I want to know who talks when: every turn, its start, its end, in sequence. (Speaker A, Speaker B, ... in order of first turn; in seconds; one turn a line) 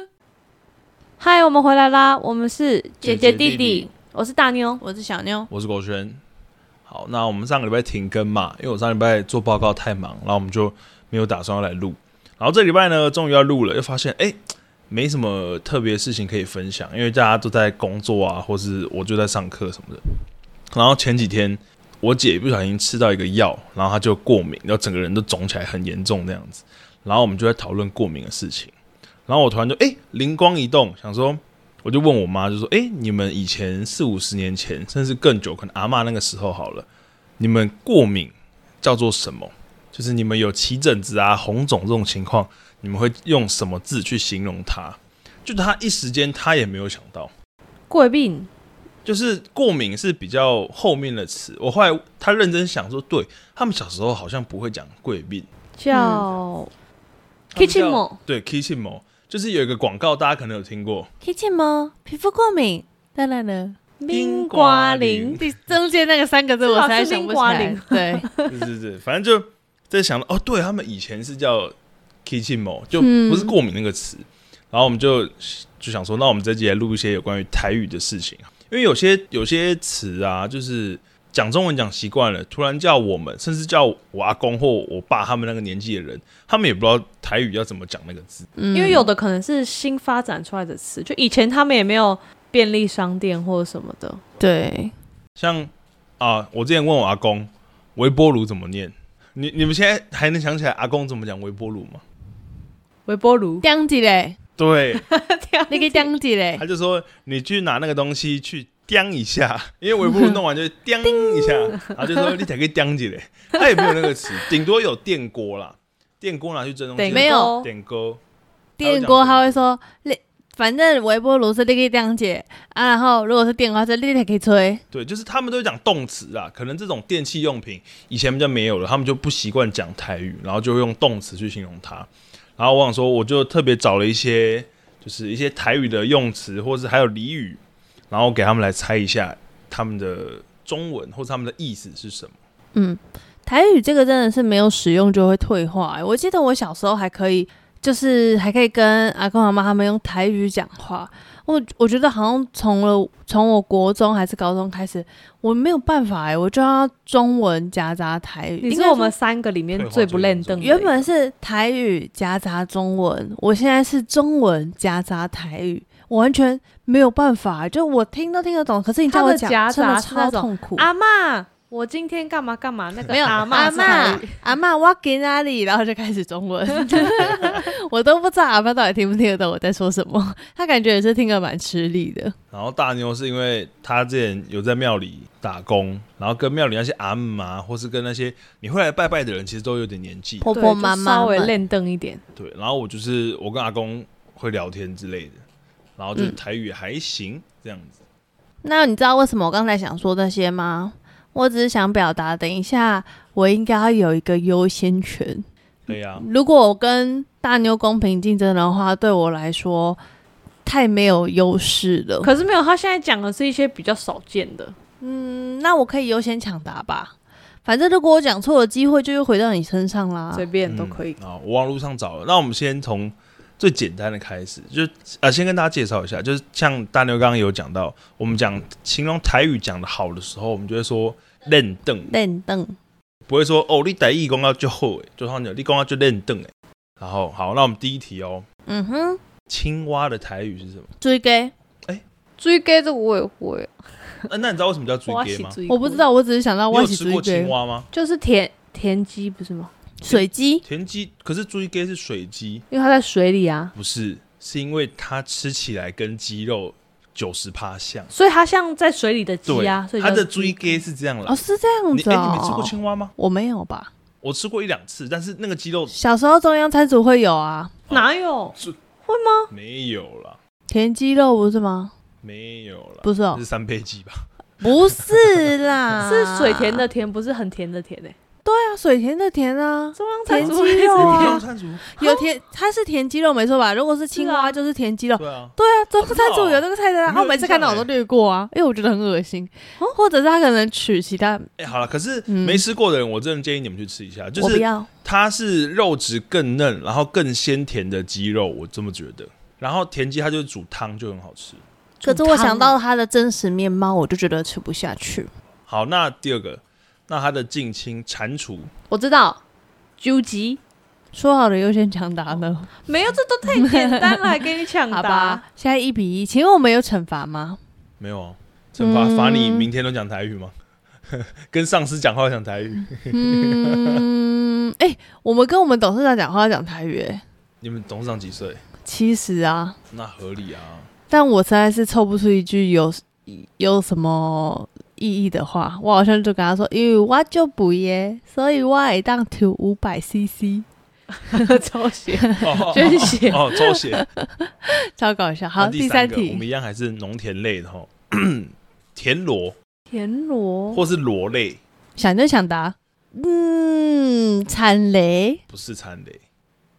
Speaker A: 1.2-4.8
Speaker B: 3.0-3.9
Speaker C: 4.8-5.5
Speaker B: 5.5-6.2
Speaker B: 6.9-14.4
Speaker B: 14.9-20.0
Speaker B: 20.7-28.7
Speaker B: 29.3-36.9
Speaker B: 37.4-47.3
Speaker A: 47.9-48.5
Speaker B: 49.0-55.5
Speaker A: 55.8-56.7
Speaker C: 55.9-56.2
Speaker B: 57.5-61.1
Speaker A: 57.5-58.2
Speaker C: 61.2-63.8
Speaker A: 64.0-65.4
Speaker B: 64.1-65.5
Speaker C: 65.4-68.3
Speaker A: 66.6-68.5
Speaker B: 68.5-71.7
Speaker B: 72.2-88.5
Speaker C: 73.0-73.5
Speaker C: 88.6-89.1
Speaker A: 88.7-94.2
Speaker C: 94.4-94.9
Speaker B: 95.4-102.0
Speaker A: 103.0-103.6
Speaker C: 103.6-104.4
Speaker B: 104.6-105.0
Speaker A: 105.0-106.1
Speaker C: 105.7-106.6
Speaker B: 106.6-118.2
Speaker C: 111.0-111.8
Speaker A: 117.0-117.7
Speaker C: 117.1-117.5
Speaker C: 118.8-124.8
Speaker B: 118.8-119.6
Speaker B: 124.9-142.3
Speaker C: 142.7-159.1
Speaker A: 158.6-160.9
Speaker B: 159.7-161.1
Speaker C: 160.6-170.9
Speaker A: 169.1-174.4
Speaker B: 173.0-174.0
Speaker C: 173.1-182.3
Speaker A: 176.8-177.6
Speaker B: 182.5-190.5
Speaker C: 190.4-191.5
Speaker A: 190.4-192.2
Speaker B: 192.3-195.4
Speaker B: 196.0-198.0
Speaker C: 198.6-210.0
Speaker B: 205.9-206.3
Speaker C: 210.6-212.3
Speaker A: 212.2-214.7
Speaker C: 215.0-217.1
Speaker C: 217.6-220.4
Speaker A: 220.3-221.2
Speaker B: 220.7-232.1
Speaker C: 232.1-232.8
Speaker B: 233.3-238.4
Speaker C: 238.7-239.2
Speaker B: 239.5-240.9
Speaker C: 241.0-241.5
Speaker A: 242.4-243.7
Speaker B: 244.3-245.6
Speaker A: 245.1-246.0
Speaker C: 245.7-247.5
Speaker B: 246.7-247.9
Speaker A: 247.9-249.7
Speaker C: 250.0-250.6
Speaker B: 250.1-252.6
Speaker A: 252.7-253.7
Speaker B: 253.7-258.1
Speaker A: 258.1-260.8
Speaker B: 259.4-263.1
Speaker C: 261.2-263.9
Speaker B: 264.2-265.9
Speaker C: 265.9-267.8
Speaker A: 267.9-269.5
Speaker B: 269.5-270.4
Speaker C: 270.7-271.9
Speaker B: 272.2-274.2
Speaker C: 273.0-273.4
Speaker C: 274.6-276.9
Speaker A: 276.0-278.1
Speaker C: 278.4-291.5
Speaker A: 279.9-281.4
Speaker B: 280.4-281.9
Speaker A: 284.1-284.6
Speaker B: 285.2-287.9
Speaker B: 291.6-301.6
Speaker C: 292.3-292.6
Speaker C: 294.4-294.9
Speaker A: 302.0-302.7
Speaker C: 302.0-305.3
Speaker B: 305.7-308.7
Speaker A: 308.9-309.4
Speaker A: 310.0-310.6
Speaker C: 311.1-312.7
Speaker A: 312.9-315.4
Speaker C: 313.6-314.2
Speaker C: 314.9-317.6
Speaker B: 318.0-320.5
Speaker C: 318.8-319.7
Speaker B: 321.1-324.0
Speaker C: 323.1-327.2
Speaker B: 327.6-328.6
Speaker C: 328.8-329.8
Speaker B: 329.9-330.9
Speaker C: 331.1-340.6
Speaker A: 341.3-343.5
Speaker C: 342.2-346.4
Speaker B: 342.4-344.1
Speaker B: 345.6-349.6
Speaker A: 349.9-350.8
Speaker B: 350.7-351.6
Speaker C: 351.9-355.4
Speaker B: 355.5-356.2